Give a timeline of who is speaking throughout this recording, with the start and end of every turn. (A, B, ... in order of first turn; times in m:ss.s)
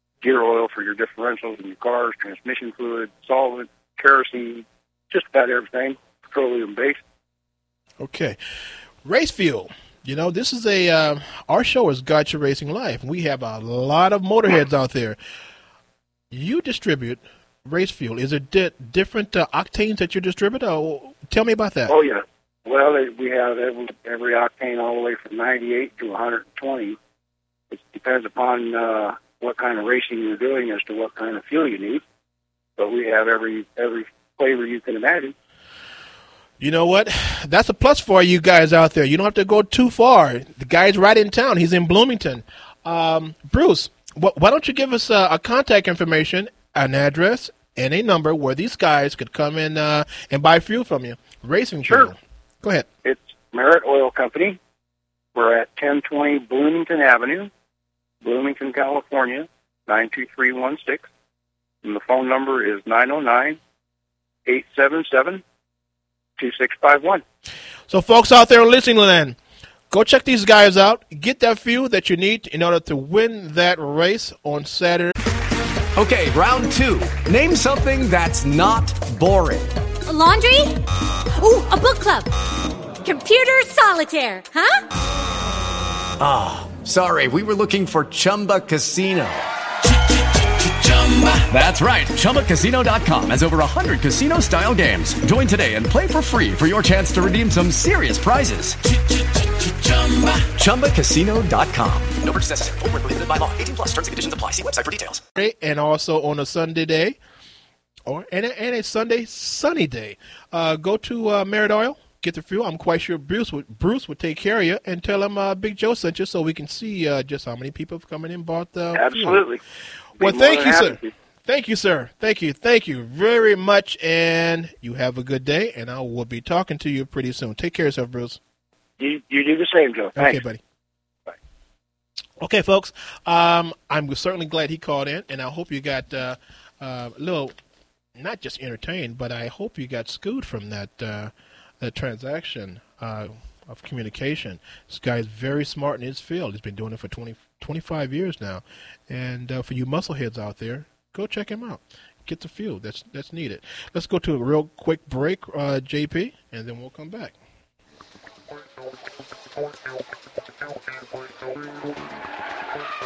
0:00.2-0:07.0 A
0:08.0-0:08.4 B
0:09.0-0:15.2 B
0:16.3-0:21.9 B
0:21.9-0:27.0 A
0:27.7-0:32.0 A
0:32.8-0:35.3 A
0:36.6-0:52.9 B
0:51.8-0:52.1 A
0:53.0-0:54.6 A
0:55.4-0:57.5 A
0:58.2-1:01.1 A
1:01.8-1:03.6 A
1:04.5-1:05.4 A
1:06.4-1:07.2 A
1:07.9-1:09.4 B
1:09.9-1:15.1 B
1:16.0-1:19.7 C
1:20.1-1:20.8 D
1:21.4-1:22.3 D
1:23.0-1:24.8 D
1:26.2-1:29.4 C
1:30.8-1:38.8 C
1:39.6-1:42.2 C
1:42.2-1:45.2 E
1:45.4-1:47.2 B
1:48.1-1:59.4 B
1:58.9-1:59.6 A
2:00.2-2:01.1 A
2:00.2-2:08.4 B
2:09.0-2:10.4 A
2:10.2-2:10.6 B
2:12.4-2:17.6 B
2:18.2-2:37.4 B